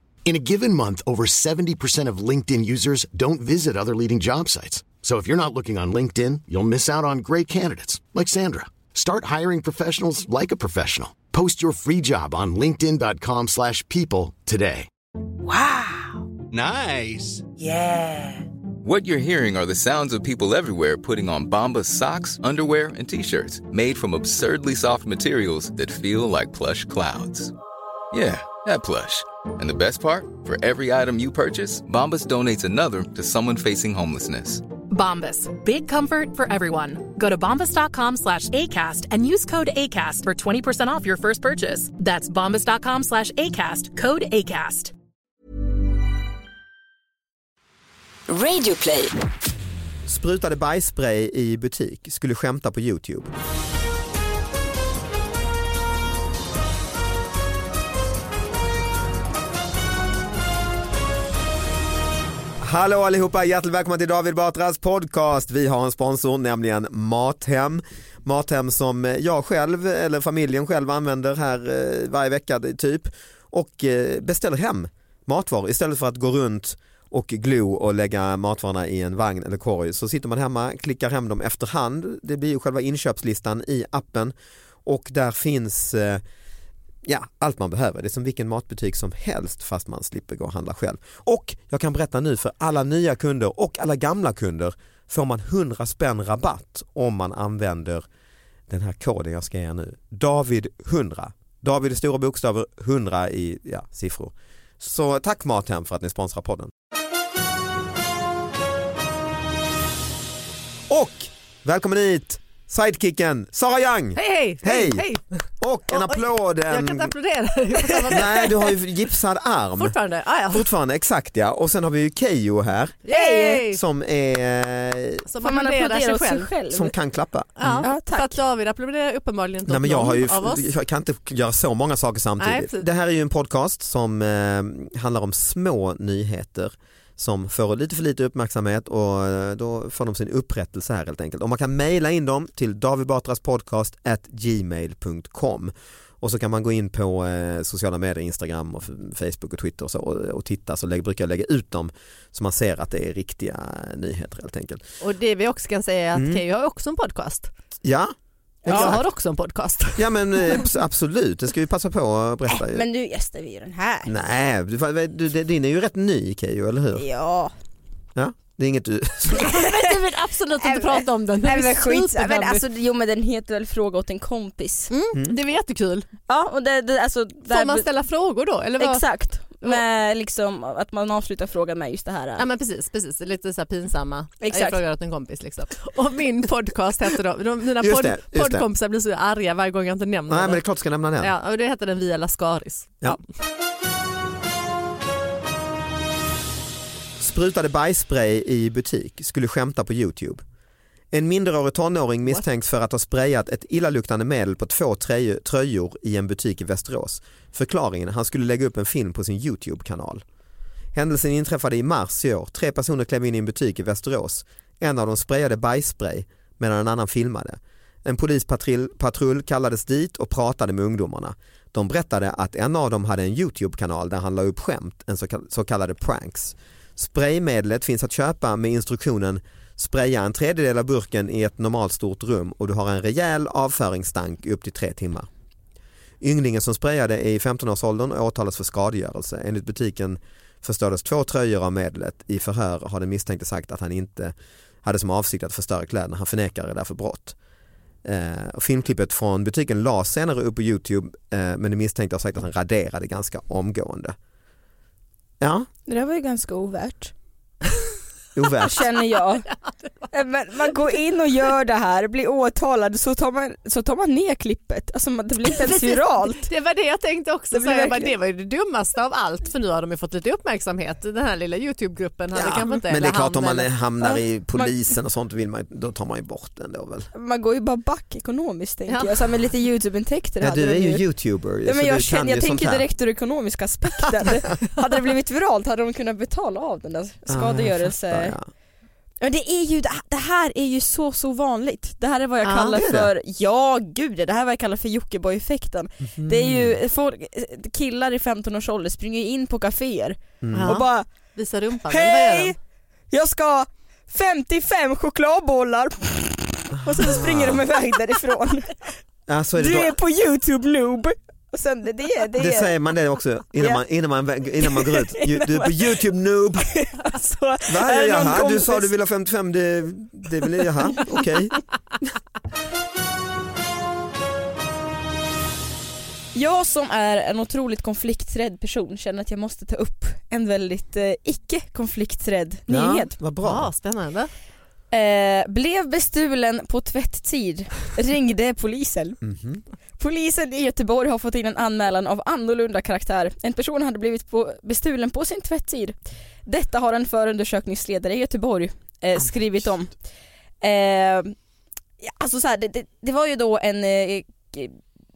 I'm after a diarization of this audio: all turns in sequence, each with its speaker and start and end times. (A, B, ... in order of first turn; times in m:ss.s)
0:00.3-0:14.9 A
0:15.4-0:16.2 B
0:16.6-0:17.3 C
0:17.6-0:18.4 B
0:18.8-0:27.5 C
0:28.1-0:34.7 C
0:34.9-0:44.9 D
0:48.3-0:49.2 B
0:50.1-0:53.3 E
1:02.6-1:24.3 E
1:24.8-1:26.2 E
1:27.0-1:38.1 E
1:38.7-1:46.7 E
1:50.9-1:55.0 E
1:54.2-1:55.3 F
1:55.6-1:57.1 E
1:55.9-1:58.8 F
1:58.1-2:00.0 E
1:59.8-2:00.6 F
2:00.5-2:03.1 E
2:03.1-2:03.8 F
2:03.1-2:03.6 G
2:03.7-2:05.2 E
2:05.3-2:06.5 F
2:05.4-2:06.9 G
2:06.7-2:07.9 E
2:07.6-2:10.7 F
2:07.8-2:08.4 G
2:09.7-2:34.8 E
2:12.4-2:12.9 F
2:35.0-2:37.5 F
2:36.1-2:36.4 E
2:37.8-2:39.0 E
2:38.6-2:40.7 F
2:38.7-2:39.0 G
2:40.0-2:42.8 E
2:42.7-2:44.1 G
2:44.1-2:47.0 E
2:47.0-2:47.5 G
2:48.2-2:49.5 E
2:49.3-2:52.6 F
2:50.6-2:54.9 G
2:54.9-2:56.1 F
2:56.3-2:57.9 G
2:57.5-2:59.8 F
2:58.8-3:02.4 G
3:02.4-3:10.6 F
3:04.4-3:04.8 G
3:07.8-3:08.6 E
3:10.3-3:11.3 E
3:11.2-3:13.2 F
3:17.2-3:20.4 E
3:21.1-3:30.2 E
3:30.9-3:55.3 E
3:56.2-4:07.4 E
4:08.0-4:14.2 E
4:15.4-4:15.7 E
4:15.9-4:17.1 G
4:18.4-4:18.8 E
4:18.6-4:19.5 G
4:20.1-4:26.5 G
4:25.5-4:33.7 F
4:27.5-4:28.1 G
4:32.3-4:37.1 E
4:34.0-4:34.7 G
4:37.1-4:41.0 G
4:38.9-4:39.2 F
4:40.4-4:42.9 E
4:41.6-4:48.4 G
4:47.3-4:48.5 E
4:49.2-5:01.4 G
4:52.4-4:52.8 F
4:52.8-4:53.1 E
4:56.0-4:56.8 E
5:00.4-5:00.7 E
5:00.5-5:02.6 F
5:01.9-5:02.6 G
5:03.1-5:08.9 G
5:06.8-5:07.6 E
5:09.3-5:10.0 E
5:09.6-5:12.7 G
5:12.4-5:16.7 E
5:13.6-5:13.8 G
5:14.6-5:15.8 G
5:16.7-5:18.9 G
5:17.7-5:21.5 E
5:26.4-5:33.1 G
5:32.7-5:33.7 E
5:33.4-5:34.3 F
5:34.9-5:39.2 G
5:39.2-5:39.6 E
5:40.0-5:50.0 G
5:50.6-5:51.4 G
5:52.0-5:54.8 G